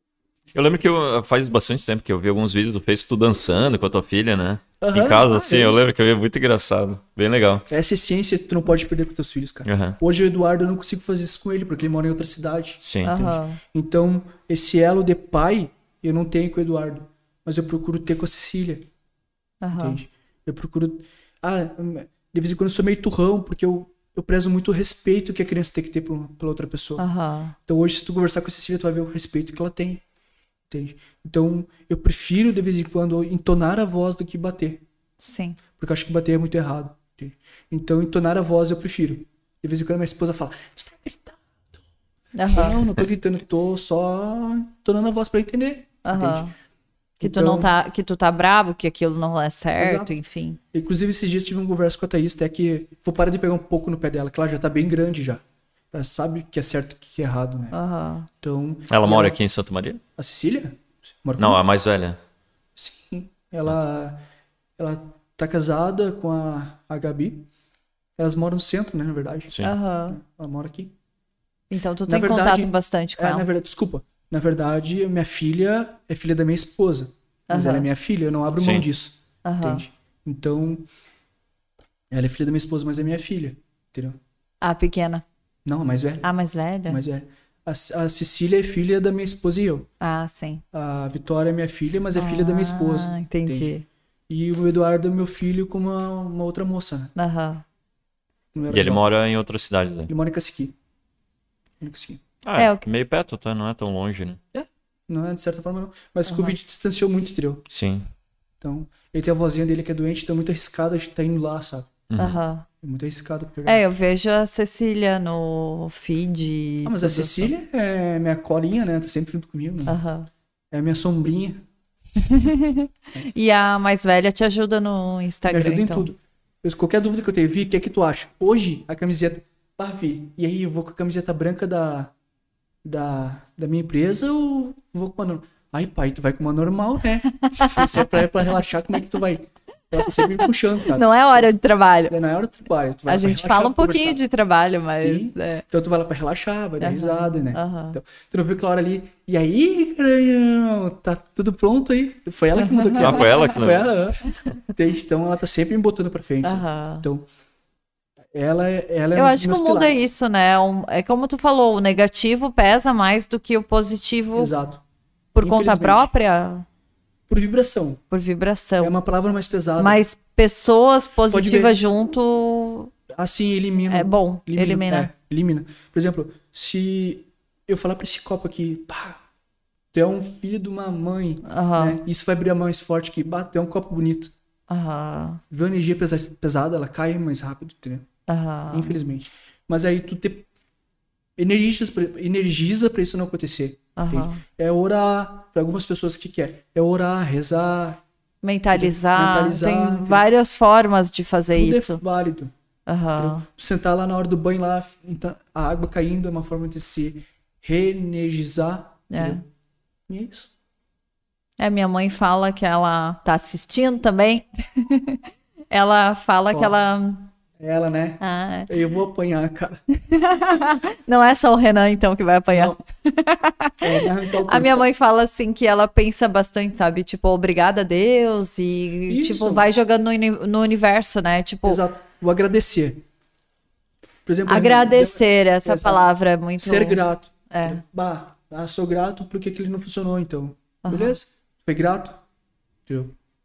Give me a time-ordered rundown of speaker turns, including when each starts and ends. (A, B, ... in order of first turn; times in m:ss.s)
0:00.5-0:07.7 A
0:04.8-0:05.8 B
0:07.7-0:18.9 B
0:09.6-0:10.0 A
0:12.8-0:13.3 A
0:13.0-0:13.6 C
0:19.6-0:20.0 C
0:19.7-0:27.0 B
0:27.0-0:27.6 C
0:27.6-0:30.0 B
0:30.7-0:34.8 B
0:35.2-0:35.6 C
0:35.8-0:41.4 B
0:42.4-0:42.8 C
0:42.5-0:46.5 B
0:46.0-0:46.5 C
0:47.2-0:47.7 B
0:47.2-0:50.6 C
0:49.8-0:50.1 B
0:50.7-0:57.8 B
0:57.7-0:58.3 C
0:58.4-0:59.4 B
0:58.9-1:00.0 A
1:00.2-1:01.6 B
1:01.4-1:02.2 A
1:02.8-1:04.2 B
1:04.8-1:07.5 B
1:08.2-1:09.5 B
1:09.5-1:09.7 A
1:09.6-1:10.2 C
1:10.1-1:10.9 B
1:11.7-1:13.5 C
1:12.1-1:20.9 B
1:17.5-1:17.9 C
1:18.6-1:18.9 A
1:19.4-1:19.8 C
1:22.1-1:24.2 B
1:24.6-1:25.2 C
1:25.6-1:26.3 B
1:26.2-1:27.0 C
1:26.8-1:29.9 B
1:30.0-1:30.6 C
1:30.7-1:33.7 B
1:32.1-1:33.8 C
1:34.3-1:37.1 B
1:37.2-1:37.6 C
1:38.5-1:39.0 B
1:38.7-1:40.1 A
1:40.1-1:40.7 B
1:41.8-1:42.2 B
1:42.4-1:44.4 A
1:42.6-1:42.8 C
1:44.5-1:47.6 B
1:46.2-1:46.5 C
1:47.7-1:48.1 A
1:48.6-1:51.9 B
1:52.1-1:52.4 A
1:52.2-1:52.7 C
1:52.8-1:53.8 B
1:53.6-1:57.5 C
1:56.8-2:00.0 B
1:59.9-2:00.3 C
2:00.7-2:01.6 B
2:02.2-2:06.1 C
2:05.5-2:12.1 B
2:12.8-2:21.4 B
2:17.5-2:18.1 C
2:20.1-2:22.1 C
2:22.1-2:24.2 B
2:23.1-2:25.6 C
2:25.0-2:37.3 B
2:26.8-2:28.0 C
2:32.8-2:33.2 C
2:33.0-2:34.0 A
2:36.4-2:37.1 C
2:38.3-2:40.1 B
2:39.1-2:44.5 C
2:44.4-2:44.8 B
2:45.3-2:46.6 C
2:45.4-2:46.1 B
2:47.3-2:48.0 B
2:48.1-2:49.0 C
2:48.8-2:50.0 B
2:49.8-2:52.9 C
2:51.3-2:51.8 B
2:53.1-2:59.2 B
2:53.9-2:55.1 C
2:59.9-3:04.3 B
3:01.4-3:02.0 C
3:04.7-3:05.4 C
3:05.5-3:08.1 B
3:08.3-3:09.0 C
3:08.7-3:10.5 B
3:11.4-3:18.0 B
3:14.0-3:14.4 C
3:18.4-3:22.0 C
3:18.7-3:20.2 B
3:21.5-3:22.5 B
3:22.9-3:23.4 C
3:23.2-3:29.4 B
3:29.1-3:29.4 C
3:30.1-3:30.5 B
3:31.6-3:37.3 C
3:37.6-3:39.8 B
3:38.2-3:38.7 C
3:40.1-3:43.8 C
3:42.5-3:42.8 B
3:43.8-3:44.9 B
3:44.4-3:51.8 C
3:49.1-3:49.6 B
3:51.6-3:53.0 B
3:54.2-3:56.0 B
3:54.5-3:57.8 C
3:56.6-4:02.2 B
4:00.8-4:01.2 C
4:02.9-4:03.2 B